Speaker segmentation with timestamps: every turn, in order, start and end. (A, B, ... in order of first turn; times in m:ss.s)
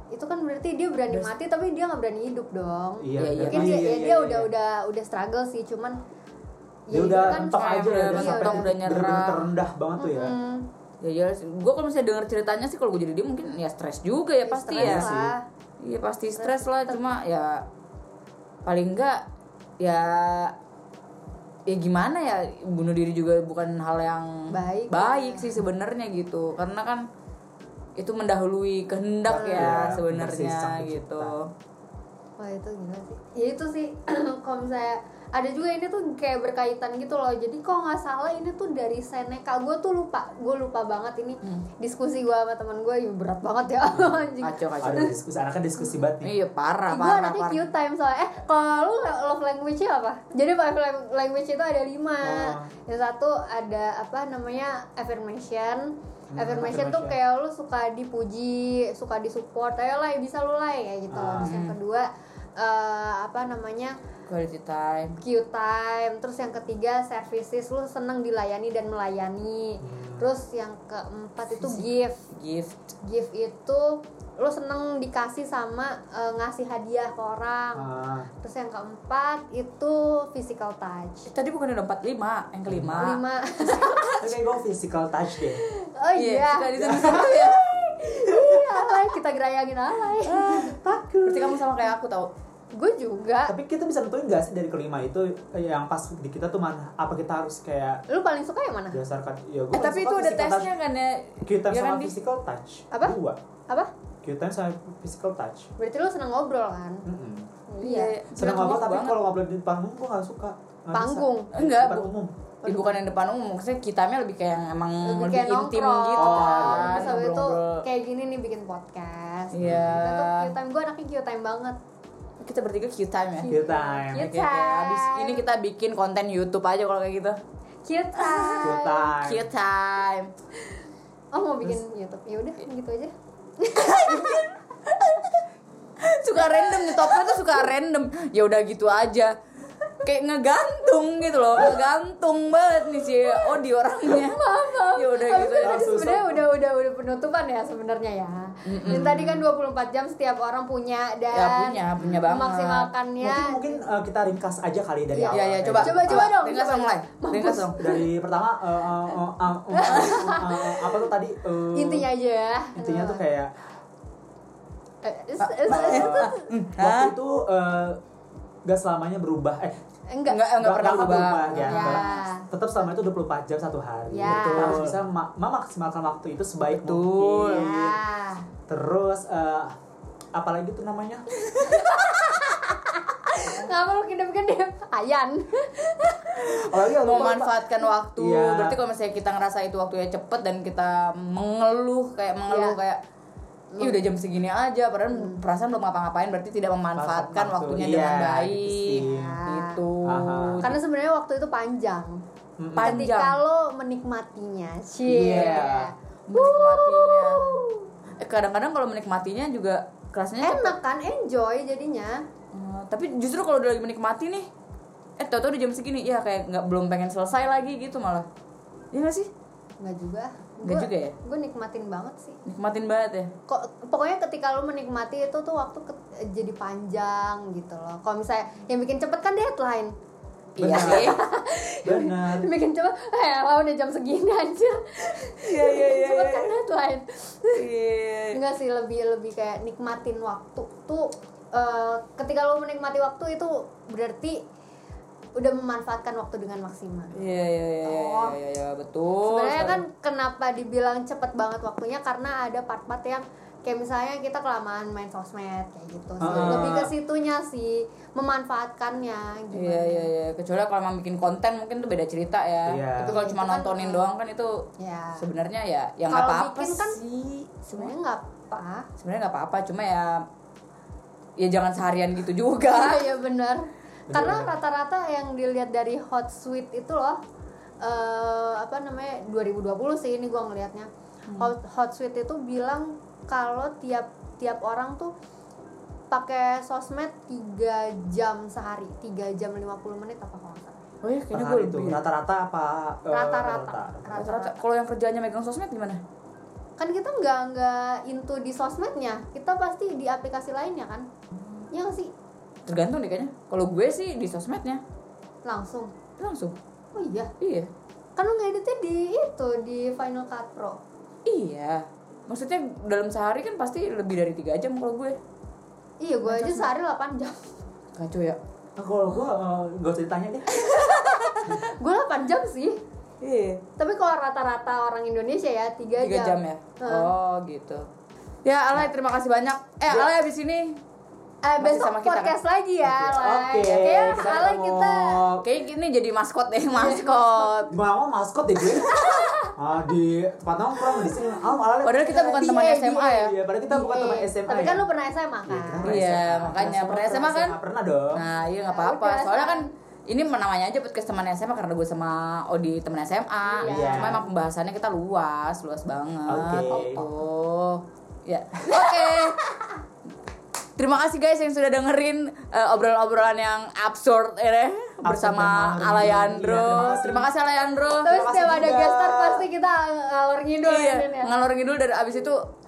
0:00.1-0:06.0 A
0:03.0-0:04.5 B
0:03.2-0:03.8 C
0:06.9-0:08.8 A
0:06.9-0:10.4 B
0:07.2-0:09.5 C
0:10.0-0:10.7 A
0:11.0-0:15.1 C
0:14.4-0:15.4 A
0:14.8-0:15.3 B
0:15.8-0:17.6 C
0:16.4-0:17.0 A
0:18.6-0:19.2 C
0:19.8-0:20.5 C
0:21.7-0:27.0 C
0:24.5-0:25.6 A
0:28.0-0:31.5 C
0:29.3-0:31.3 B
0:29.3-0:29.7 A
0:32.4-0:45.1 A
0:43.9-0:44.3 B
0:44.4-0:45.1 C
0:44.8-0:46.4 B
0:46.2-0:47.6 C
0:46.9-1:04.0 A
0:52.2-0:52.7 B
0:56.3-0:57.2 B
1:01.1-1:01.6 B
1:01.4-1:01.7 C
1:04.3-1:05.2 C
1:05.2-1:12.2 A
1:09.8-1:10.3 B
1:11.6-1:12.8 C
1:13.0-1:17.9 A
1:17.7-1:18.3 B
1:18.4-1:21.3 A
1:21.3-1:23.2 C
1:22.7-1:23.0 B
1:23.0-1:24.3 A
1:24.2-1:25.6 B
1:25.7-1:30.7 A
1:26.1-1:27.6 C
1:26.8-1:27.4 B
1:28.2-1:28.8 B
1:30.3-1:30.7 C
1:30.5-1:31.6 B
1:31.2-1:32.3 C
1:32.7-1:33.5 A
1:33.4-1:38.0 B
1:38.1-1:39.0 A
1:38.9-1:40.7 B
1:39.7-1:42.1 C
1:41.4-1:43.4 B
1:42.9-1:43.9 A
1:44.2-1:45.7 B
1:45.8-1:47.0 A
1:47.0-1:47.5 B
1:47.7-1:48.2 A
1:47.8-1:49.2 C
1:48.3-1:52.3 B
1:50.9-1:51.5 A
1:51.5-1:52.1 C
1:52.6-1:53.0 A
1:52.6-1:57.8 C
1:55.0-2:01.8 A
1:56.2-1:57.2 B
1:59.5-2:00.5 C
1:59.6-2:00.0 B
2:02.4-2:03.6 C
2:03.4-2:05.4 A
2:03.5-2:04.4 B
2:04.1-2:07.4 C
2:07.8-2:09.1 A
2:08.2-2:10.3 C
2:08.6-2:09.5 B
2:11.3-2:14.5 A
2:13.7-2:15.3 C
2:16.0-2:19.4 C
2:16.5-2:17.4 A
2:20.0-2:25.8 C
2:24.0-2:33.8 A
2:25.6-2:26.5 B
2:28.6-2:29.2 C
2:28.8-2:29.4 B
2:31.3-2:32.9 C
2:33.2-2:36.3 B
2:35.1-2:38.1 A
2:35.3-2:37.8 C
2:37.8-2:42.1 B
2:39.7-2:41.1 A
2:41.7-2:43.2 A
2:42.7-2:43.5 B
2:45.0-2:46.5 A
2:45.4-2:47.1 C
2:45.7-2:48.0 B
2:48.6-2:49.8 B
2:50.1-2:50.5 A
2:50.2-2:52.2 C
2:50.6-2:58.0 B
2:51.6-2:52.5 A
2:54.1-2:54.9 A
2:54.2-2:55.0 C
2:56.8-2:57.7 C
2:57.4-2:58.5 A
2:58.7-2:59.8 B
3:00.3-3:01.9 B
3:01.6-3:06.6 A
3:06.4-3:07.5 B
3:07.0-3:13.0 C
3:08.2-3:08.8 B
3:12.5-3:12.8 A
3:13.7-3:14.0 A
3:13.8-3:20.7 C
3:15.1-3:15.4 A
3:17.0-3:19.4 B
3:19.0-3:19.8 A
3:20.0-3:20.8 B
3:20.6-3:22.2 A
3:22.6-3:23.0 B
3:22.8-3:23.4 C
3:22.8-3:27.9 A
3:25.1-3:27.6 C
3:25.1-3:25.9 B
3:28.2-3:30.7 C
3:30.4-3:32.2 A
3:32.5-3:34.5 C
3:35.2-3:38.3 C
3:38.9-3:39.3 C
3:39.8-3:42.4 A
3:40.6-3:41.2 C
3:42.4-3:43.3 C
3:43.5-3:49.9 A
3:50.6-3:51.2 C
3:50.6-3:51.3 B
3:50.6-3:57.6 A
3:51.8-3:52.5 B
3:55.4-3:56.6 C
3:57.5-3:58.4 C
3:58.3-4:04.4 A
4:05.3-4:07.2 A
4:07.1-4:09.8 C
4:07.8-4:08.4 A
4:09.2-4:20.1 A
4:16.2-4:16.9 B
4:16.2-4:16.8 C
4:19.5-4:24.6 C
4:22.7-4:23.2 B
4:23.0-4:24.1 A
4:24.8-4:25.2 A
4:25.2-4:27.9 C
4:26.1-4:27.0 A
4:27.6-4:28.9 A
4:29.0-4:30.2 C
4:31.4-4:33.0 C
4:32.6-4:37.2 A
4:34.1-4:34.5 B
4:37.8-4:45.1 A
4:46.1-4:50.9 A
4:51.0-4:52.0 C
4:51.3-4:54.2 B
4:53.1-4:54.6 A
4:54.2-4:56.0 C
4:56.8-5:01.0 A
5:01.7-5:02.1 A
5:02.6-5:04.8 C
5:05.4-5:05.9 A
5:06.2-5:06.6 C
5:06.9-5:07.3 A
5:07.4-5:07.7 C
5:08.2-5:10.8 A
5:11.2-5:15.2 C
5:16.0-5:17.5 A
5:16.3-5:16.7 C
5:18.0-5:18.4 C
5:18.8-5:20.8 B
5:20.6-5:22.8 A
5:20.9-5:21.2 C
5:23.2-5:23.6 C
5:23.8-5:27.1 A
5:26.0-5:27.9 C
5:28.4-5:30.8 C
5:31.4-5:35.3 A
5:31.6-5:32.3 C
5:32.8-5:35.4 B
5:35.4-5:37.7 C
5:36.7-5:37.7 A
5:37.7-5:42.4 B
5:38.7-5:39.5 A
5:41.8-5:43.3 C
5:42.1-5:46.0 A
5:43.2-5:44.9 B
5:45.5-5:48.2 B
5:45.8-5:47.6 C
5:48.1-5:59.4 C
5:48.5-5:49.7 A
5:53.5-5:54.2 A
5:53.6-5:54.2 B
5:56.3-5:57.0 B
5:58.9-5:59.7 A
6:00.8-6:08.2 C
6:05.0-6:07.3 B
6:08.0-6:11.3 A
6:08.1-6:09.4 B
6:10.6-6:12.4 C